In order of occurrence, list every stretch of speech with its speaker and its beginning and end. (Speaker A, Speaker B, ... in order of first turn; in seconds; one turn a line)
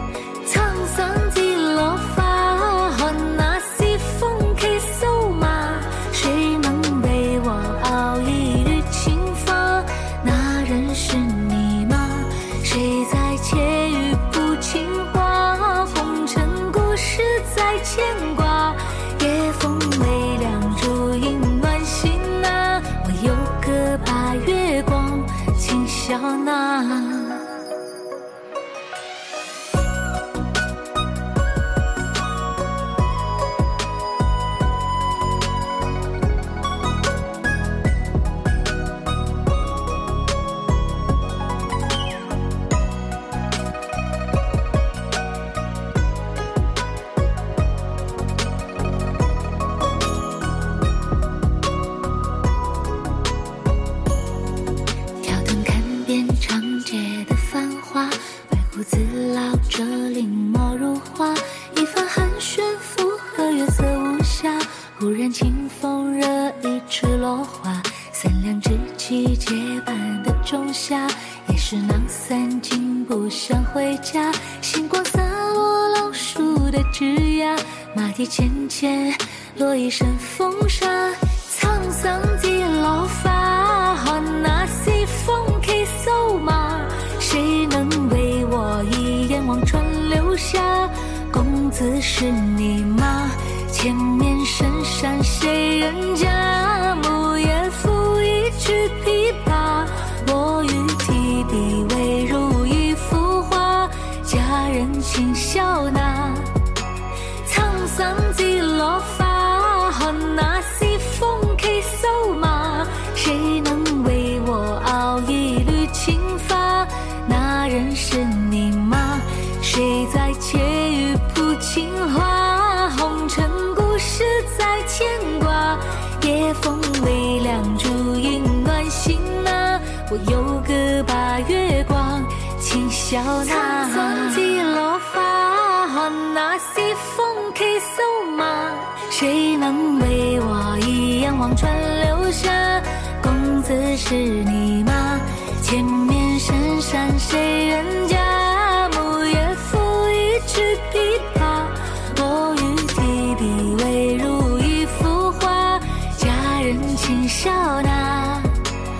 Speaker A: 0.4-27.4
Speaker A: 55.2-106.5
Speaker A: 107.4-158.5